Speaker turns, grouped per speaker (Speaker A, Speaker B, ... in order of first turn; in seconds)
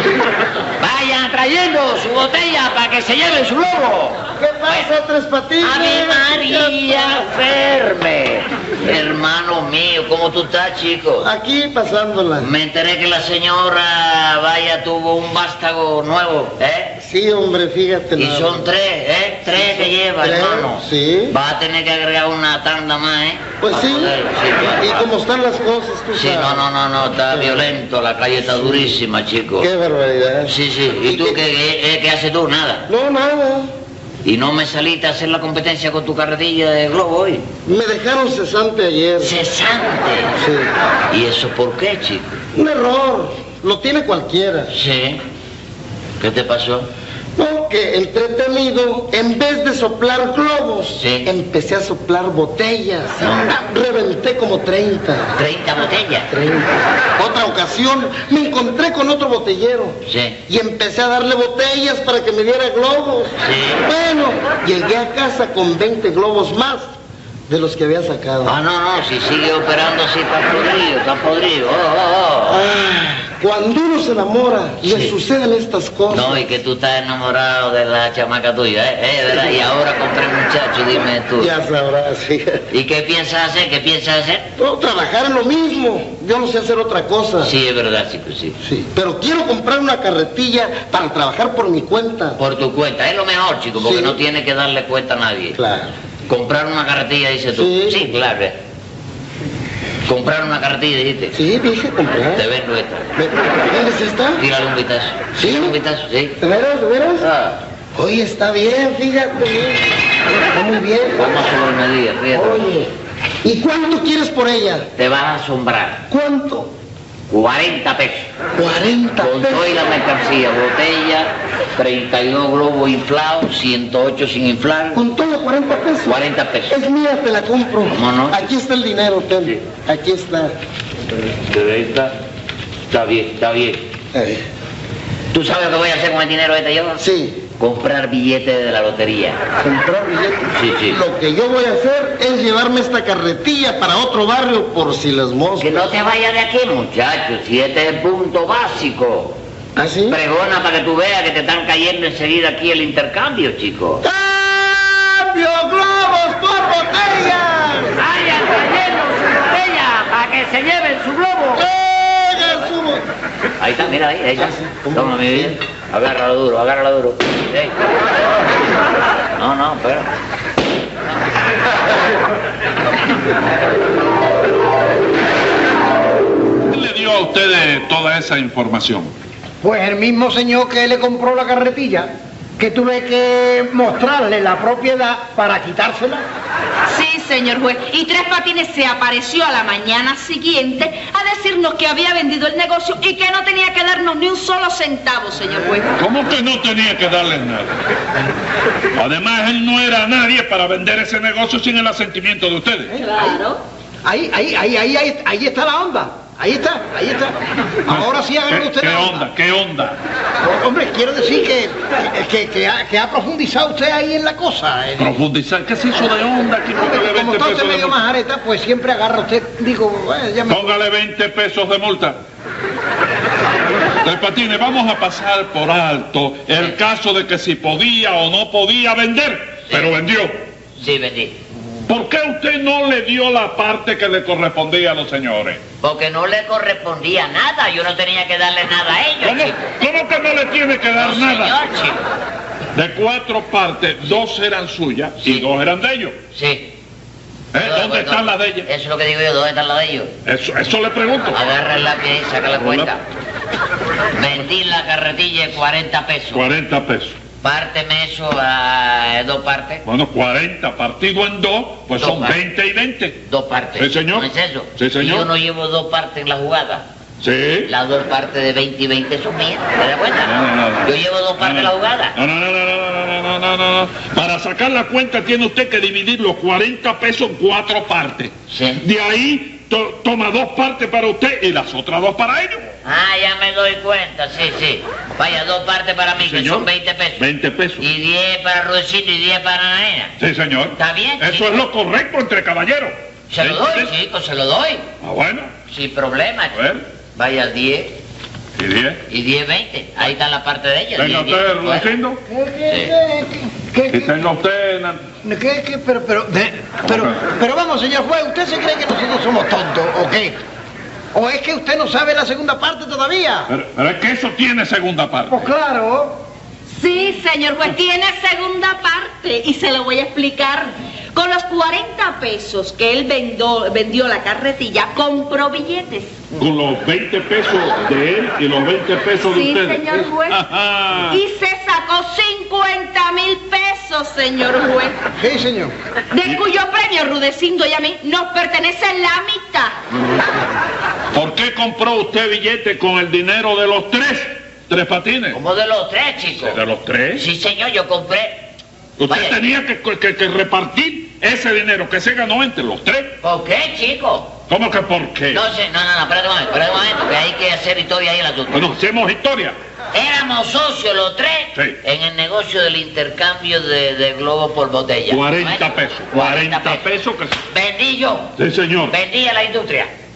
Speaker A: 0.8-4.9, 5.6-11.3, 12.4-16.9, 18.2-25.1, 26.1-29.7, 30.4-32.9, 34.2-37.5, 39.2-40.4, 41.1-42.4, 44.7-45.2, 46.2-46.9, 51.0-51.3, 53.2-53.5, 55.4-56.3, 60.0-60.4, 63.4-63.9, 68.5-72.6, 74.8-75.2, 76.1-81.5, 82.7-84.5, 87.4-88.6, 92.4-95.6, 96.3-98.6, 100.0-101.4, 102.3-103.1, 104.4-106.4, 107.2-107.6, 111.2-112.7, 115.0-116.0, 117.3-118.3, 119.2-125.0, 126.1-126.8, 127.9-128.5, 131.4-132.1, 132.9-133.9, 135.3-137.0, 137.6-139.4, 140.5-141.0, 145.6-149.4, 150.1-154.1, 158.0-161.7, 163.6-167.8, 169.4-170.1, 230.8-231.4, 235.8-239.7, 240.9-242.1, 245.2-245.5, 246.3-246.8, 247.6-250.1, 251.3-253.0, 254.1-256.4, 257.4-259.8, 262.0-262.4, 263.2-266.9, 267.7-272.1, 278.5-278.8, 282.9-287.2, 287.8-290.1, 290.8-291.6, 293.3-294.9, 295.7-296.6, 297.2-298.0, 299.1-301.9, 302.7-302.9, 345.3-346.6, 347.1-348.5, 349.1-349.4, 353.2-354.3, 355.3-358.7, 359.9-366.8, 367.5-368.3, 368.9-369.9
Speaker B: 4.4-7.2, 11.2-12.5, 17.0-18.7, 19.5-21.4, 23.6-24.1, 24.8-26.7, 27.3-27.7, 28.4-28.9, 29.6-30.5, 31.1-31.4, 32.9-33.7, 37.7-39.4, 40.4-40.7, 42.5-44.7, 47.4-55.4, 56.3-66.9, 67.5-68.6, 72.5-76.4, 79.3-79.6, 81.4-82.6, 84.6-87.5, 88.6-92.4, 93.8-94.2, 95.6-95.9, 97.5-98.0, 101.3-102.5, 103.2-104.4, 105.3-105.8, 106.4-107.3, 108.0-109.8, 110.5-111.2, 112.3-112.9, 113.4-114.9, 116.1-116.7, 118.5-119.8, 124.9-130.6, 134.1-134.4, 137.0-137.4, 139.6-146.0, 149.8-150.2, 154.0-158.0, 161.6-163.1, 164.4-165.6
Speaker C: 176.7-179.1, 196.0-197.8, 198.9-202.9, 207.9-210.0, 215.0-218.0, 220.5-222.2, 224.0-230.3, 231.9-235.6, 239.2-241.6, 242.7-246.2, 247.5-248.7, 250.3-251.4, 252.5-252.9, 256.3-257.2, 259.9-263.2, 263.8-265.3, 267.2-267.7, 270.2-282.6, 286.2-287.8, 290.2-293.9, 295.0-295.5, 296.5-296.8, 298.6-299.0, 301.0-302.2, 303.9-305.0, 306.9-307.2, 313.5-315.5, 326.4-331.2, 341.1-345.4, 346.4-347.2, 349.0-353.2, 354.5-355.4, 358.5-359.6, 365.1-367.4, 368.4-368.9
Speaker D: 179.6-186.2, 202.9-203.4, 204.1-209.3, 210.4-215.2, 216.8-220.6, 302.3-304.3, 305.2-310.4, 311.1-313.5, 315.3-316.2, 335.2-335.7
Speaker E: 186.9-196.0, 202.9-203.6, 316.8-326.2, 329.2-330.4, 331.1-335.0, 336.1-339.8